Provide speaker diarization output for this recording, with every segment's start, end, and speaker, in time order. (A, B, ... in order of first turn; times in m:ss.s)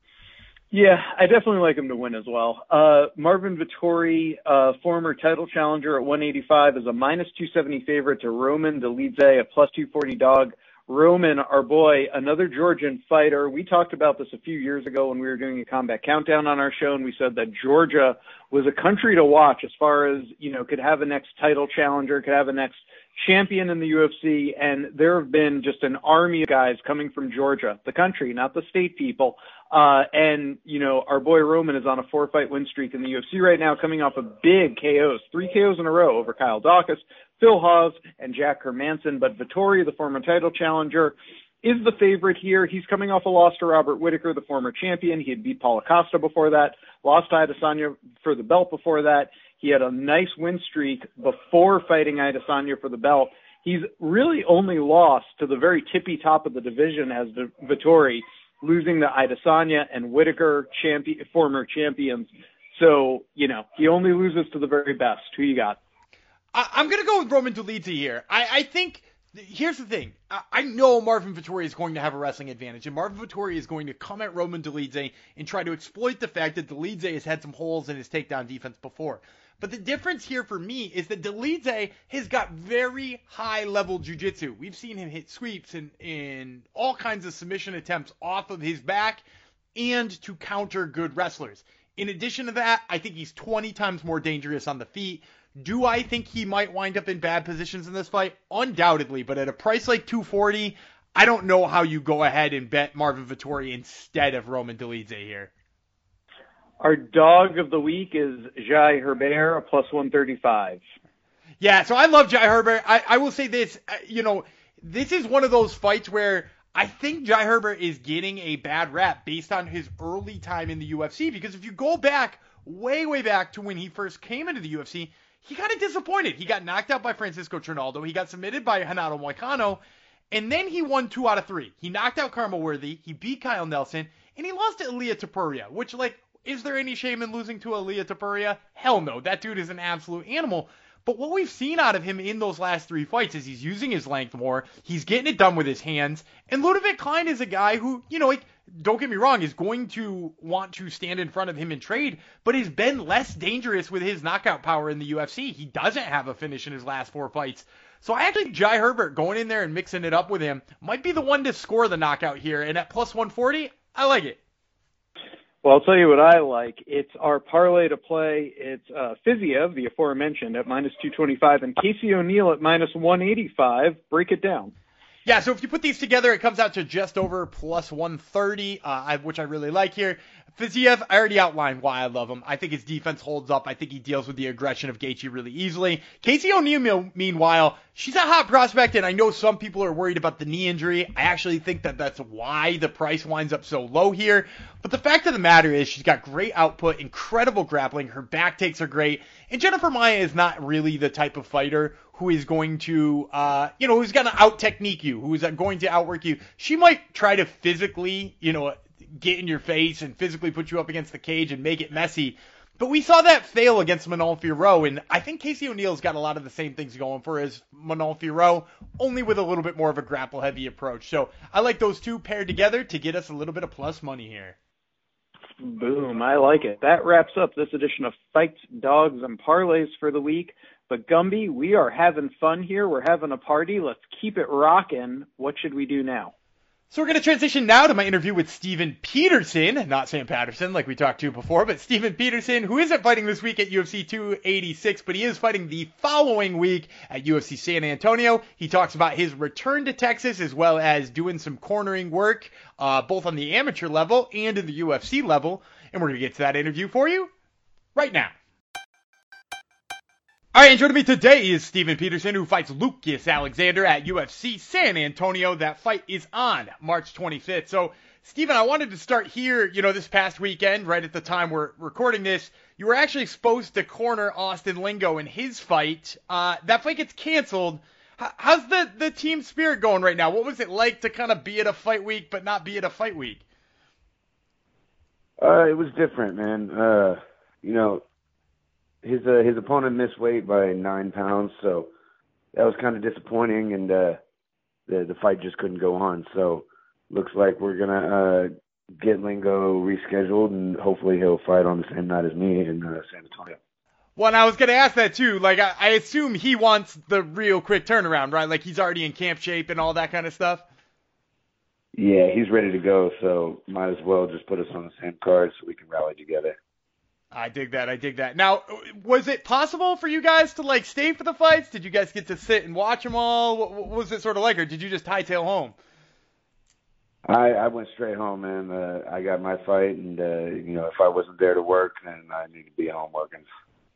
0:00.7-1:05.8 A
1:06.5-1:29.2 B
1:29.8-1:45.5 B
1:46.8-1:50.8 A
1:51.6-2:09.8 B
2:10.3-2:44.4 B
2:45.6-2:54.7 A
2:55.2-3:44.6 B
3:45.6-3:56.3 A
3:56.9-4:17.3 B
4:17.9-4:18.3 B
4:20.5-4:43.4 B
4:45.4-4:48.0 C
4:49.0-4:51.9 C
4:52.5-4:54.2 C
4:54.9-5:03.6 C
5:04.2-5:10.6 B
5:11.9-5:16.6 C
5:17.3-5:25.7 B
5:27.3-5:33.4 C